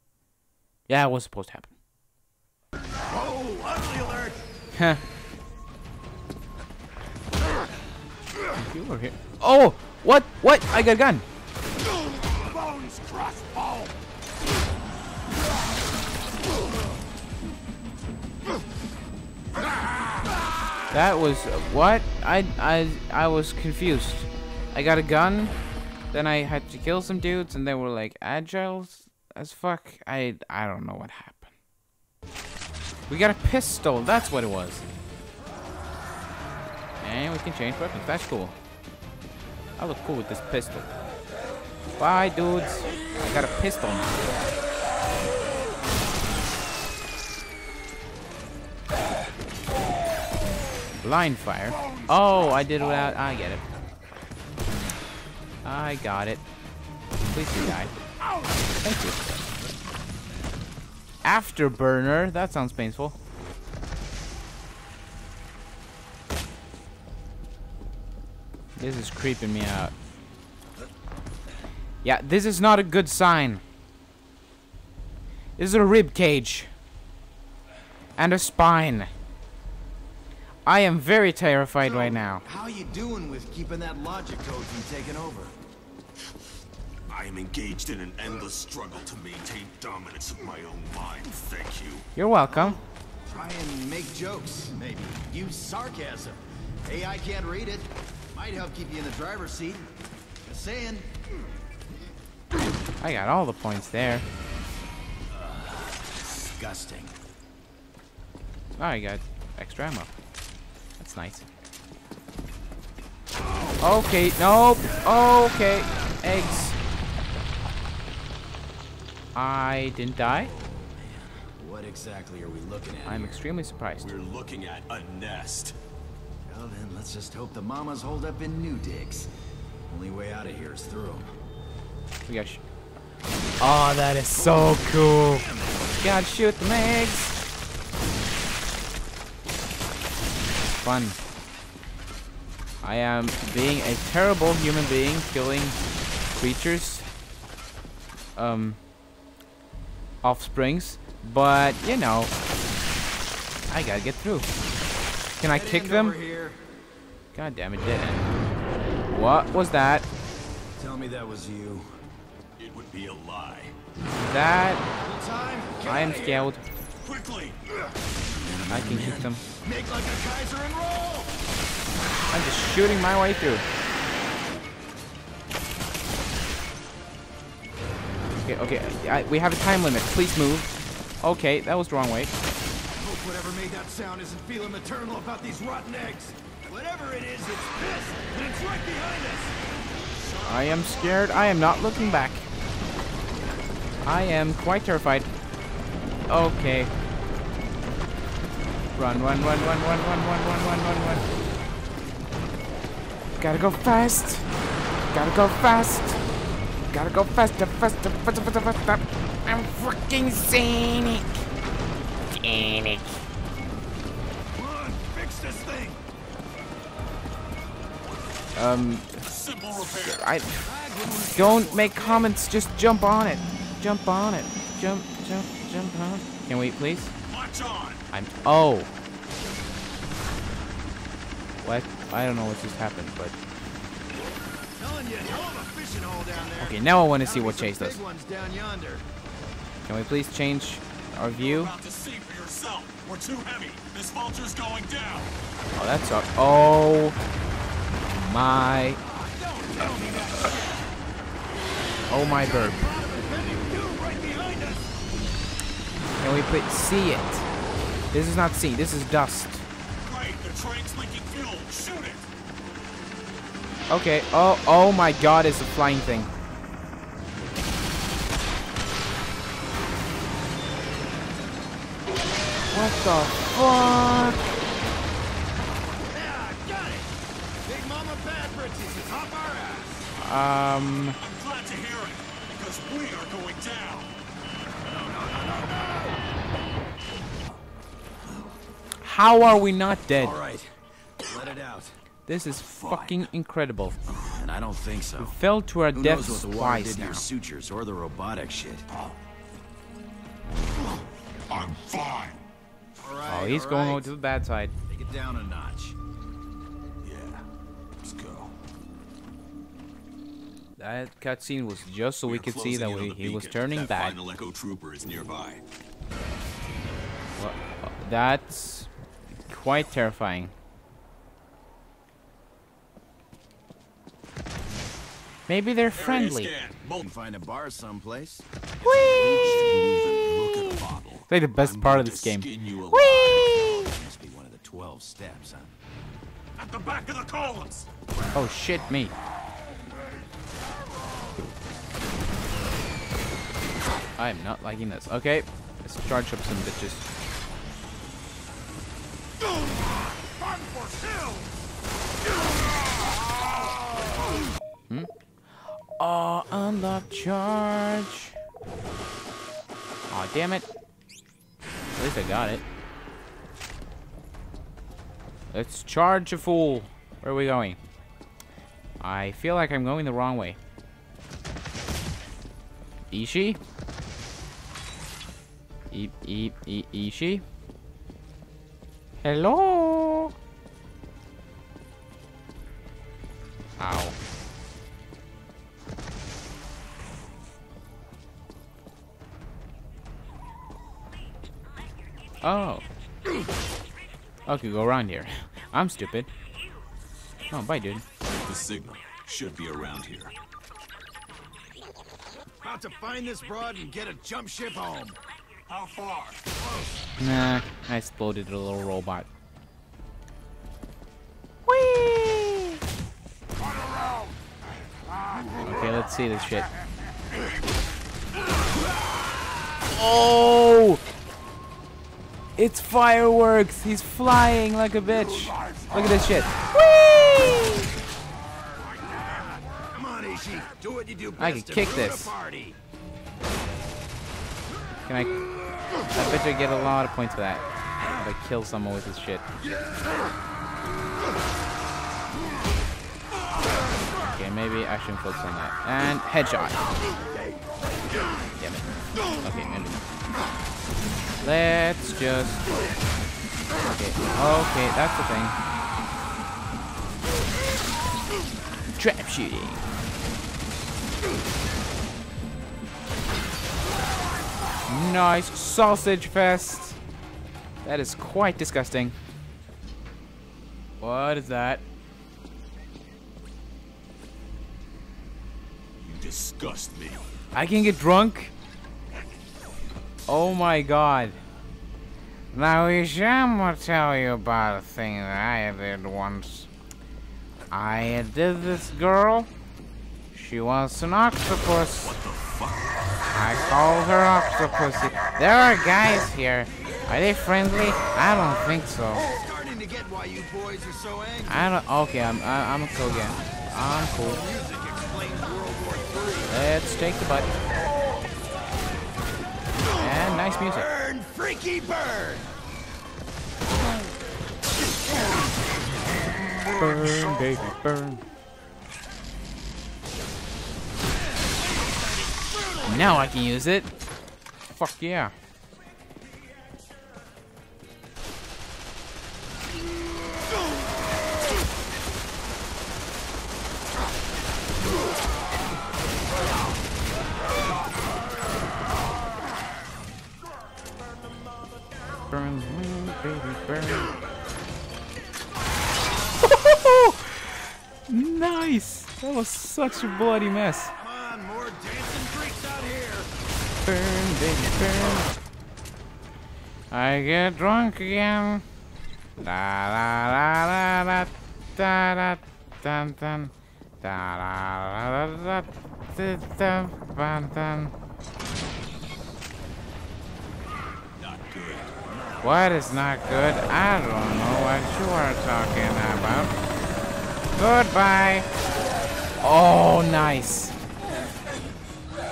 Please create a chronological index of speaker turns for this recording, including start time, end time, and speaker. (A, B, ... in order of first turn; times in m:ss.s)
0:00.9-0:01.7 A
0:03.1-0:04.4 B
0:04.7-0:05.0 A
0:08.6-0:11.2 A
0:12.6-0:13.8 C
0:20.9-0:25.5 A
0:26.1-0:31.5 A
0:33.1-0:34.8 A
0:37.0-0:38.6 A
0:39.8-0:40.9 A
0:42.0-0:44.1 A
0:50.9-0:53.6 A
0:55.6-0:56.4 A
0:57.3-0:57.9 A
0:58.8-0:59.4 A
1:01.2-1:03.2 A
1:08.8-1:09.9 A
1:12.0-1:13.6 A
1:15.6-1:16.7 A
1:18.2-1:19.1 A
1:20.6-1:22.4 A
1:21.8-1:25.5 B
1:27.1-1:32.1 C
1:32.1-1:32.8 A
1:33.3-1:39.9 B
1:40.4-1:41.1 B
1:43.0-1:44.2 A
1:45.3-1:47.2 B
1:48.8-1:50.1 A
1:51.0-1:51.4 A
1:53.8-1:56.8 A
1:59.3-2:00.5 A
2:00.4-2:03.4 B
2:03.0-2:04.1 A
2:04.0-2:05.8 C
2:06.4-2:09.3 B
2:09.9-2:11.3 B
2:12.3-2:12.6 A
2:13.6-2:15.4 A
2:14.3-2:16.0 B
2:16.0-2:17.4 A
2:20.7-2:21.2 A
2:22.8-2:25.8 A
2:26.4-2:27.1 A
2:28.4-2:28.8 A
2:30.2-2:32.3 A
2:33.7-2:34.5 A
2:35.4-2:36.2 A
2:35.4-2:36.6 B
2:37.3-2:38.3 A
2:39.1-2:40.1 A
2:40.8-2:41.9 B
2:42.6-2:43.7 C
2:44.2-2:44.8 A
2:45.0-2:46.5 B
2:45.8-2:46.6 A
2:47.0-2:47.6 C
2:48.3-2:51.4 B
2:48.7-2:49.4 A
2:52.3-2:53.6 A
2:58.4-3:00.7 A
3:01.2-3:02.3 A
3:03.0-3:09.5 B
3:10.2-3:11.4 B
3:10.4-3:12.4 A
3:14.0-3:15.3 A
3:16.3-3:16.9 A
3:18.9-3:21.2 A
3:23.4-3:24.4 A
3:25.1-3:26.2 A
3:26.9-3:31.4 A
3:32.3-3:33.2 A
3:34.5-3:36.0 B
3:38.6-3:39.2 A
3:39.2-3:40.3 C
3:39.9-3:40.6 A
3:40.6-3:42.3 B
3:41.3-3:47.1 A
3:47.3-3:48.0 C
3:48.1-3:48.9 A
3:51.6-3:53.4 A
3:54.8-3:59.0 B
3:56.6-3:58.0 A
3:59.8-4:01.7 A
4:01.3-4:05.3 C
4:05.8-4:07.2 A
4:08.1-4:09.0 A
4:09.0-4:10.8 B
4:12.1-4:12.9 A
4:12.4-4:14.9 B
4:16.2-4:17.5 A
4:18.1-4:19.6 A
4:20.0-4:22.3 C
4:23.9-4:26.3 A
4:32.7-4:34.4 A
4:36.0-4:37.1 B
4:37.6-4:40.1 B
4:40.2-4:41.2 A
4:41.2-4:44.2 C
4:44.8-4:46.2 B
4:49.0-4:50.4 A
4:50.1-4:52.0 B
4:52.3-4:54.0 A
4:52.7-4:53.2 B
4:54.3-4:55.4 B
4:55.2-4:57.2 A
4:55.9-4:58.8 B
5:01.5-5:02.4 C
5:03.0-5:04.1 B
5:03.2-5:04.7 A
5:04.9-5:06.0 B
5:07.0-5:07.4 C
5:08.0-5:08.5 C
5:10.8-5:14.2 A
5:12.2-5:15.6 C
5:17.4-5:18.9 A
5:19.5-5:20.5 A
5:25.5-5:26.5 A
5:25.9-5:27.0 C
5:27.0-5:30.9 B
5:28.8-5:29.4 A
5:29.4-5:33.3 C
5:31.3-5:33.9 A
5:33.0-5:35.7 B
5:36.6-5:37.9 C
5:38.3-5:39.1 A
5:44.2-5:47.0 A
5:55.6-5:58.3 A
6:00.1-6:00.7 A
6:01.9-6:02.6 A
6:05.5-6:07.8 A
6:09.0-6:10.6 A
6:13.1-6:13.6 A
6:15.9-6:17.4 A
6:19.2-6:20.3 A
6:23.8-6:24.2 A
6:32.4-6:32.8 A
6:34.5-6:36.3 A
6:37.5-6:38.0 A
6:38.4-6:40.3 C
6:42.6-6:45.2 B
6:45.7-6:46.4 C
6:47.2-6:49.3 A
6:51.7-6:52.8 A
6:55.6-6:56.7 A
6:59.9-7:01.0 A
7:02.6-7:07.9 A
7:08.9-7:12.8 B
7:11.4-7:12.3 A
7:15.0-7:15.4 A
7:16.1-7:19.4 A
7:24.2-7:26.8 A
7:28.6-7:28.9 A
7:29.4-7:30.0 A
7:31.4-7:32.6 A
7:33.9-7:35.6 A
7:39.0-7:39.8 A
7:44.9-7:47.0 A
7:47.8-7:49.2 A
7:51.0-7:51.8 A
7:56.0-7:57.3 C
7:57.5-7:58.5 A
8:00.3-8:01.4 A
8:02.5-8:06.7 A
8:07.7-8:09.5 A
8:10.3-8:12.1 A
8:12.0-8:12.9 C
8:13.3-8:19.3 A
8:19.2-8:21.6 B
8:21.5-8:24.4 A
8:24.0-8:26.6 B
8:26.5-8:27.5 A
8:30.0-8:30.9 A
8:30.7-8:32.5 B
8:36.8-8:38.2 A
8:42.8-8:43.9 A
8:44.7-8:45.3 A
9:02.3-9:04.1 A
9:06.5-9:10.9 A
9:10.9-9:13.3 B
9:13.8-9:15.4 A
9:16.9-9:18.6 A
9:19.4-9:27.9 A
9:31.2-9:33.0 C
9:32.4-9:36.5 A
9:37.6-9:38.5 A
9:39.4-9:40.7 A